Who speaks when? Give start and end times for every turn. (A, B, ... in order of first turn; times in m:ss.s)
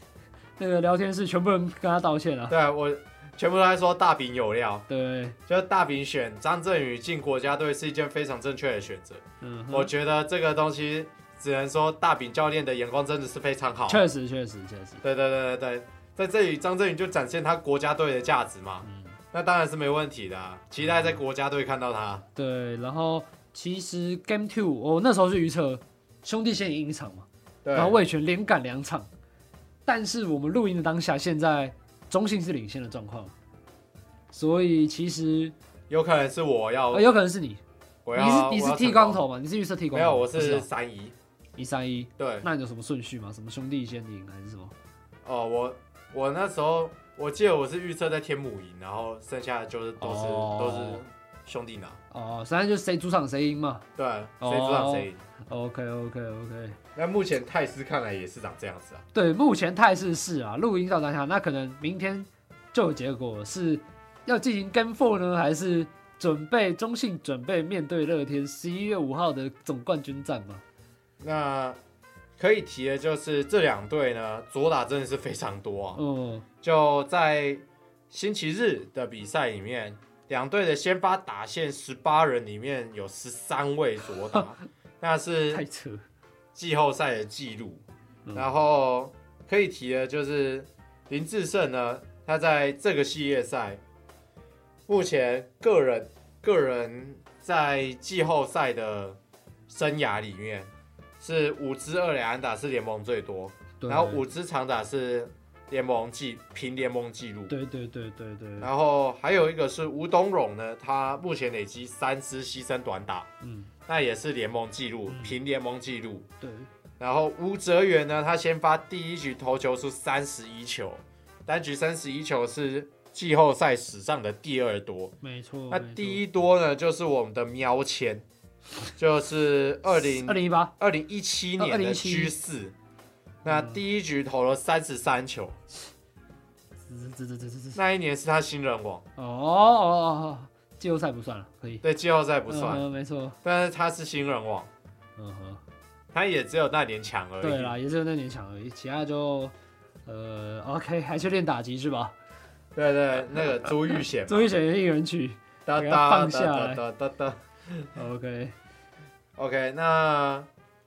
0:00.6-0:02.5 A
0:02.5-0:04.9 B
0:04.9-0:05.4 A
0:05.5-0:14.0 B
0:09.4-0:09.9 A
0:13.9-0:15.0 A
0:15.0-0:22.2 B
0:18.8-0:19.1 A
0:20.8-0:21.2 A
0:22.4-0:29.1 A
0:27.6-0:28.0 B
0:29.8-0:33.3 A
0:34.3-0:35.5 A
0:35.9-0:37.1 B
0:36.9-0:37.6 A
0:38.0-0:39.2 B
0:38.1-0:40.7 A
0:39.9-0:41.1 B
0:41.6-0:44.7 A
0:42.2-0:42.5 B
0:45.2-0:52.0 B
0:50.0-0:51.0 A
0:52.1-0:53.8 A
0:54.0-0:55.2 B
0:54.4-0:56.8 A
0:57.0-0:59.0 B
0:59.1-1:10.6 A
1:11.2-1:11.8 B
1:12.4-1:16.0 B
1:15.9-1:16.4 A
1:16.6-1:25.6 B
1:25.5-1:26.0 A
1:26.5-1:27.8 B
1:28.3-1:33.8 B
1:34.9-1:39.2 B
1:39.7-1:47.5 B
1:43.8-1:44.2 A
1:47.5-1:48.7 A
1:48.6-1:53.3 B
1:53.4-1:53.7 A
1:53.9-1:56.3 B
1:55.1-1:55.4 A
1:56.4-1:56.7 A
1:57.0-2:05.1 B
2:05.2-2:06.2 A
2:05.7-2:08.2 B
2:09.0-2:12.7 B
2:10.0-2:10.7 A
2:11.6-2:12.3 A
2:13.4-2:15.6 B
2:13.4-2:13.8 A
2:16.8-2:17.8 A
2:17.7-2:19.0 B
2:19.2-2:21.8 A
2:21.8-2:22.8 B
2:22.5-2:23.4 A
2:23.4-2:24.7 B
2:25.2-2:25.6 A
2:26.1-2:27.8 B
2:27.4-2:29.5 A
2:30.0-2:32.1 A
2:32.7-2:34.5 B
2:33.6-2:36.8 A
2:35.6-2:37.9 B
2:37.9-2:38.5 A
2:39.4-2:40.5 B